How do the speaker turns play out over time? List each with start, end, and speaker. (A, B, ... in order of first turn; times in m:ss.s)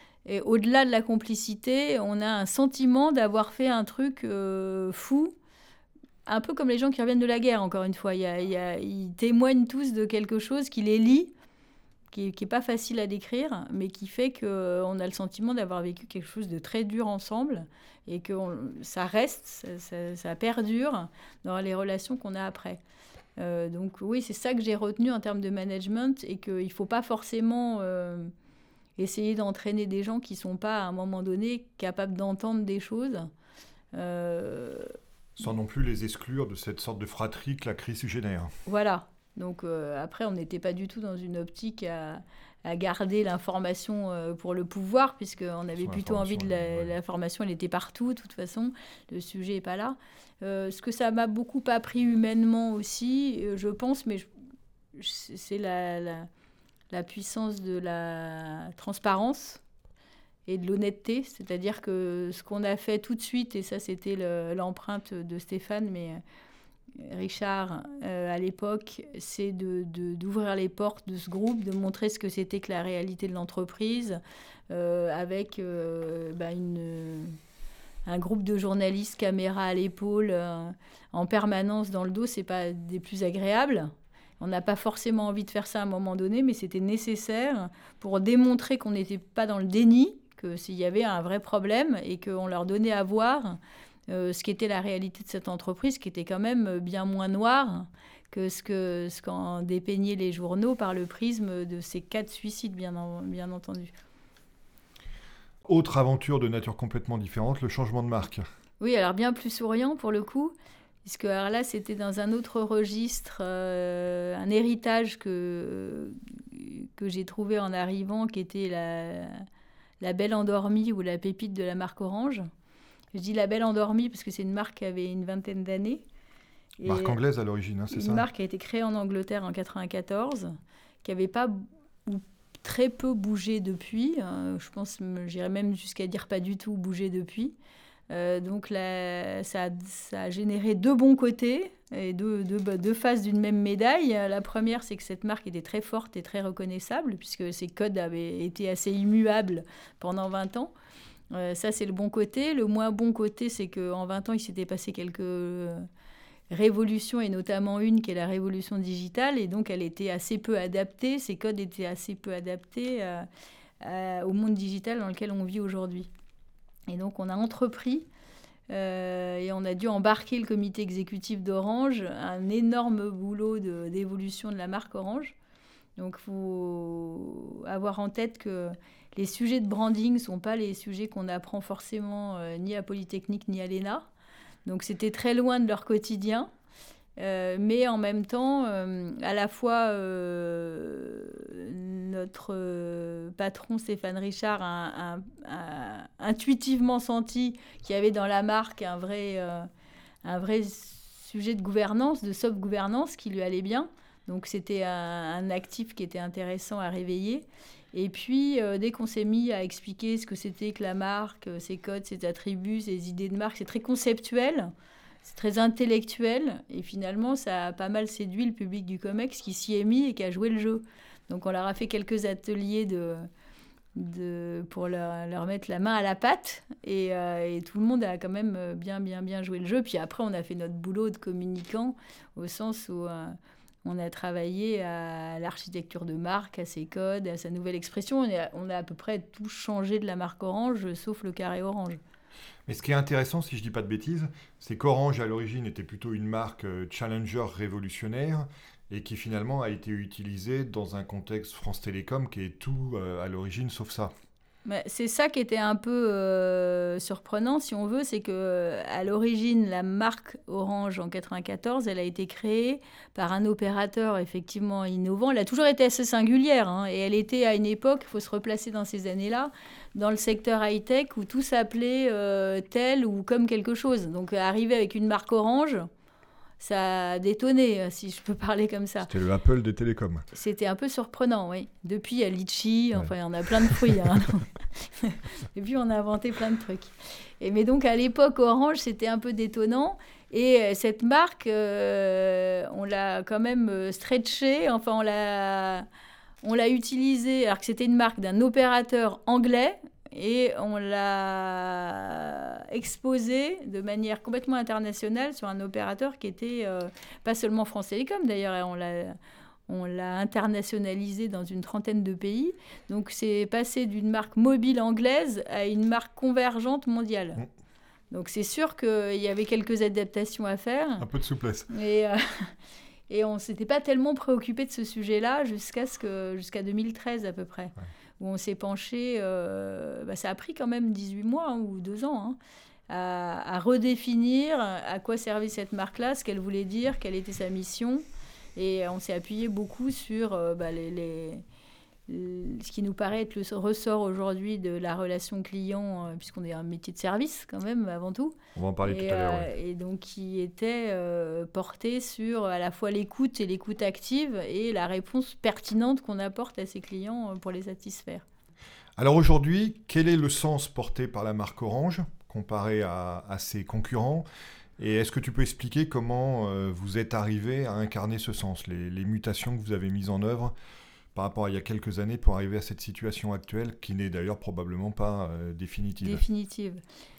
0:00.2-0:05.4 A
0:06.2-0:11.3 A
0:12.1-0:22.8 A
0:23.4-0:28.3 A
0:29.0-0:33.3 A
0:33.9-0:35.0 A
0:35.4-0:38.5 B
0:38.6-0:54.3 A
0:45.8-0:47.0 B
0:54.9-0:56.3 A
0:56.9-0:59.6 A
1:00.5-1:06.2 A
1:07.0-1:14.2 A
1:14.7-1:17.4 A
1:18.1-1:43.9 A
1:45.6-1:48.5 B
1:48.8-1:59.4 A
2:00.0-2:02.5 A
2:03.1-2:06.0 A
2:06.8-2:07.2 A
2:06.8-2:08.2 B
2:07.9-2:17.6 A
2:18.1-2:30.7 A
2:31.3-2:35.9 A
2:36.5-2:43.2 A
2:43.8-2:46.1 A
2:46.9-2:48.1 A
2:48.7-2:55.4 A
2:56.0-3:04.1 A
3:04.6-3:06.5 A
3:07.2-3:19.7 A
3:20.2-3:34.7 A
3:35.2-3:43.3 A
3:43.9-3:53.3 A
3:53.8-4:02.0 A
4:02.7-4:14.1 B
4:14.6-4:35.9 A
4:36.6-4:39.1 A
4:39.1-4:40.2 B
4:40.3-4:55.9 A
4:56.4-5:09.2 A
5:09.7-5:17.4 A
5:18.1-5:21.1 A
5:21.0-5:21.7 B
5:21.7-5:22.5 A
5:23.1-5:32.4 A
5:32.9-5:38.0 A
5:38.6-5:41.4 A
5:42.1-5:58.2 A
5:48.6-5:49.5 B
5:59.0-6:04.2 B
6:04.8-6:10.5 B
6:11.1-6:16.2 B
6:16.0-6:16.8 A